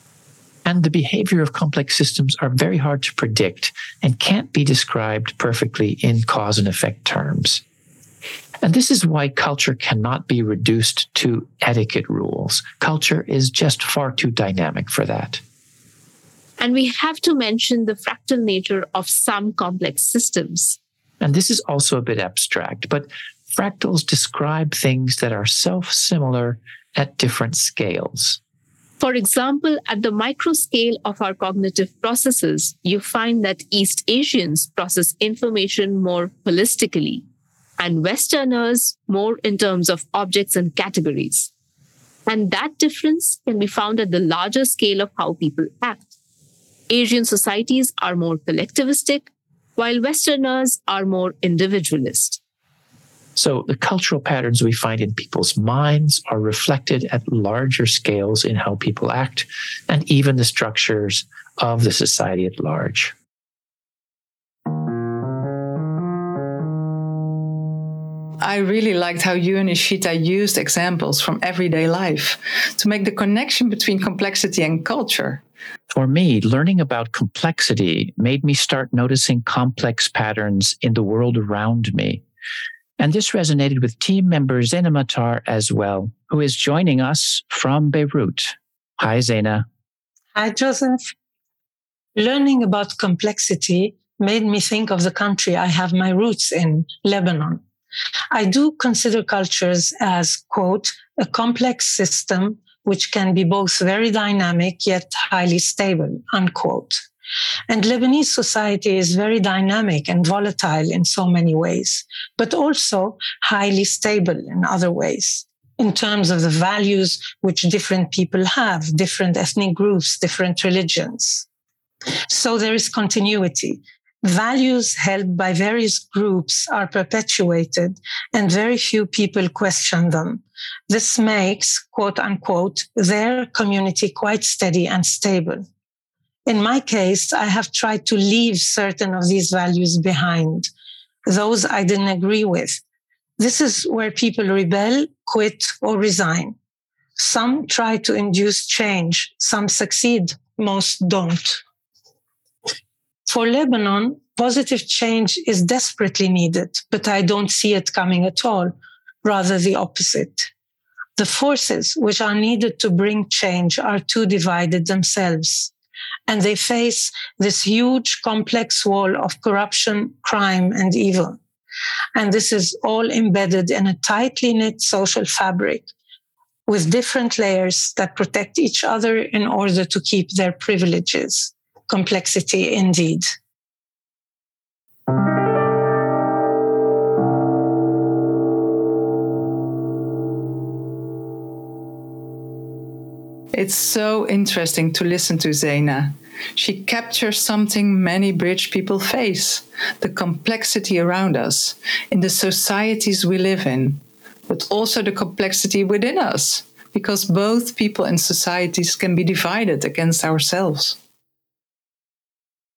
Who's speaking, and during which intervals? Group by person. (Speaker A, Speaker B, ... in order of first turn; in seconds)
Speaker A: 0.6-7.6, 8.6-15.4, 21.2-28.4, 53.4-63.1, 75.9-82.2, 83.0-89.7
Speaker B: 16.6-20.8, 29.0-37.2, 37.8-41.5, 42.3-46.1, 46.9-52.4
Speaker C: 68.4-75.4, 193.5-210.9
Speaker D: 90.3-91.1, 92.2-97.6, 98.3-107.0, 107.7-121.4, 122.3-135.7, 136.5-140.7, 141.3-142.8, 143.4-146.5, 147.2-151.6, 153.3-160.5, 161.2-165.7, 166.3-171.4, 172.2-175.8, 176.7-183.3